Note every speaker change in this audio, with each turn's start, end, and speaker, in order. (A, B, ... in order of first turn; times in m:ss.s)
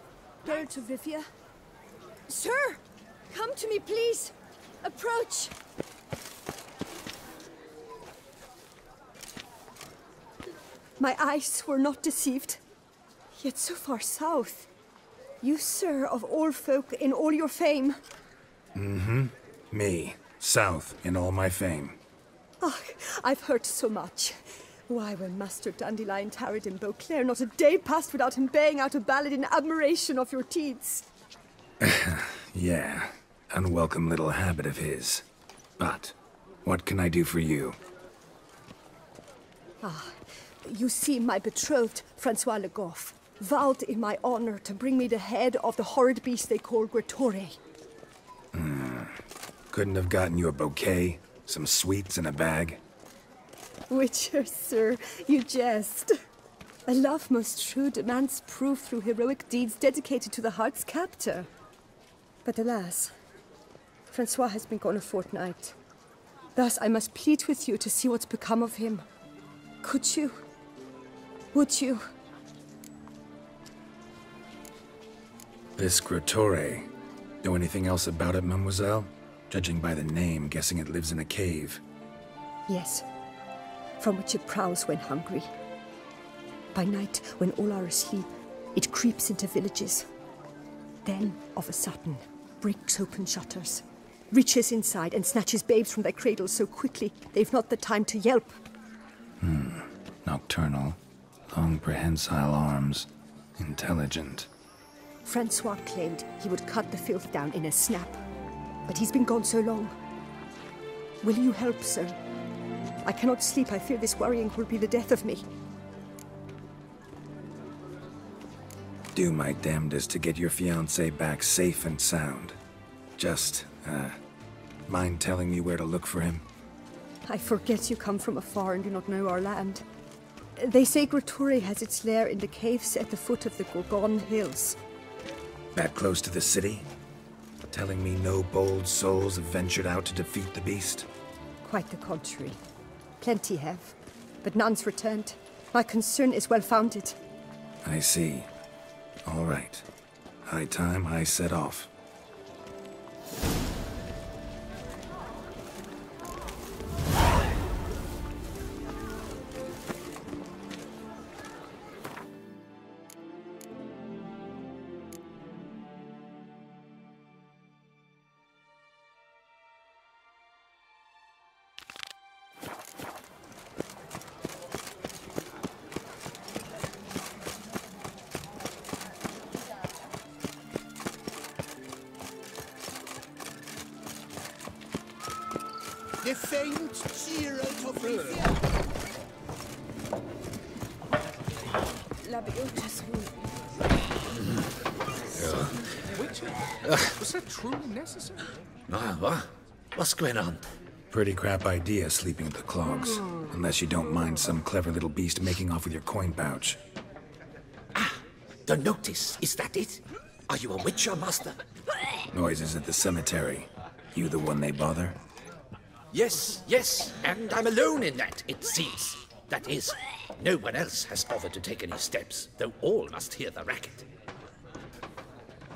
0:00.4-0:01.2 A
0:02.3-0:05.5 A
0:11.0-0:12.6 A
0:13.4-0:14.7 A
0:15.4-0:18.0 A
0:18.7-0:22.0 B
0:22.6-0:24.4 A
0:24.9-0:31.1 A
0:31.8-0:35.2 B
0:35.8-0:36.1 B
0:36.6-0:37.8 B
0:39.8-0:47.6 A
0:48.5-0:49.2 B
0:49.7-0:52.8 B
0:53.9-0:56.1 A
0:56.9-1:01.5 A
1:02.4-1:03.1 A
1:04.1-1:05.7 A
1:06.6-1:09.0 A
1:09.8-1:10.4 A
1:11.5-1:12.1 A
1:15.8-1:16.9 B
1:17.4-1:21.8 B
1:22.7-1:23.0 A
1:24.0-1:25.5 A
1:26.7-1:30.0 A
1:31.0-1:38.6 A
1:39.4-1:41.0 B
1:41.5-1:44.5 B
1:45.2-1:48.2 A
1:48.9-1:49.9 A
1:51.2-1:52.2 A
1:53.0-1:55.4 A
1:59.1-2:02.6 B
2:03.2-2:04.2 B
2:04.9-2:06.4 B
2:07.3-2:09.8 A
2:10.6-2:14.8 A
2:15.7-2:16.8 B
2:17.7-2:21.1 B
2:21.6-2:22.6 A
2:23.2-2:27.2 A
2:27.8-2:28.5 B
2:29.2-2:29.8 B
2:30.4-2:31.9 B
3:06.2-3:08.6 C
3:12.4-3:13.2 A
3:15.4-3:15.8 D
3:16.1-3:16.6 C
3:16.8-3:17.1 D
3:17.2-3:18.5 C
3:18.9-3:20.6 D
3:21.1-3:26.8 B
3:27.9-3:31.6 D
3:32.3-3:35.2 B
3:36.1-3:44.0 D